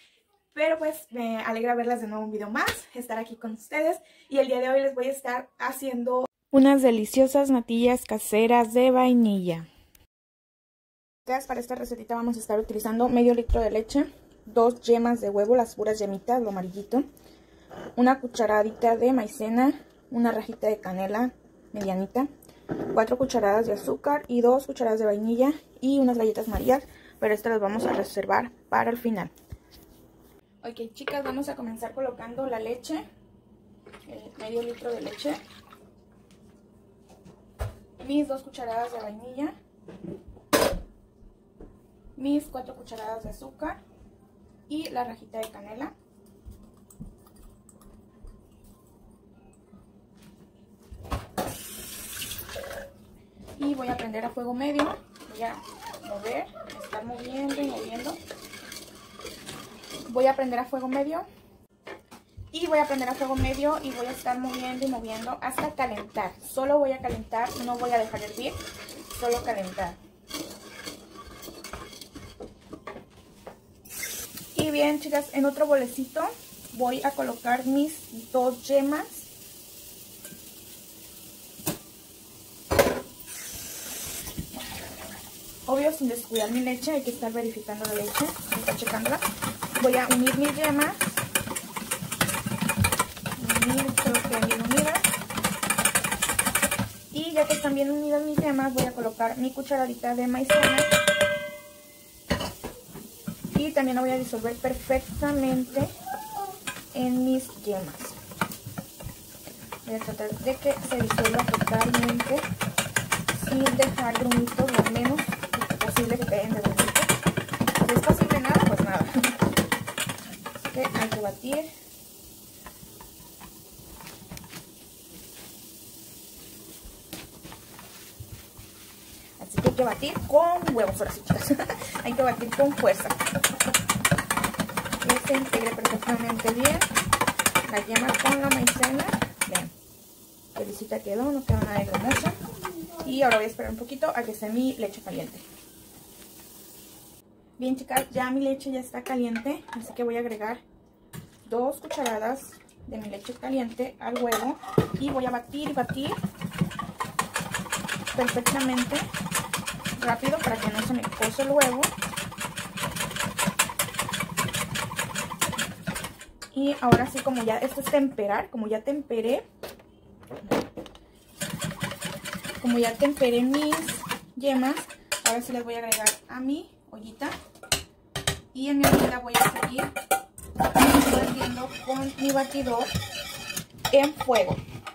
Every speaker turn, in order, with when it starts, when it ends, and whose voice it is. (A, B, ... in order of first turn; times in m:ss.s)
0:00.5-0:09.7 A
0:11.2-0:17.0 A
0:18.0-0:22.3 A
0:22.8-0:29.3 A
0:30.6-0:33.0 A
0:34.0-0:35.4 A
0:38.0-0:39.5 A
0:42.2-0:43.8 A
0:44.7-0:45.9 A
0:53.6-0:58.2 A
1:00.1-1:01.2 A
1:02.5-1:10.0 A
1:14.5-1:19.3 A
1:25.6-1:29.2 A
1:29.8-1:31.0 A
1:33.4-1:35.0 A
1:37.1-1:40.9 A
1:43.5-1:45.9 A
1:46.9-1:48.2 A
1:49.8-1:52.4 A
1:53.3-1:57.1 A
1:57.8-1:59.4 A
2:00.6-2:01.7 A
2:09.4-2:13.2 A
2:15.0-2:16.9 A
2:17.7-2:19.7 A
2:20.5-2:22.4 A
2:23.0-2:25.4 A
2:27.6-2:30.6 A
2:31.4-2:36.2 A
2:38.1-2:39.1 A
2:40.0-2:41.9 A
2:46.5-2:49.4 A
2:52.6-2:57.3 A
2:58.5-2:59.9 A
3:00.8-3:02.9 A
3:03.9-3:04.6 A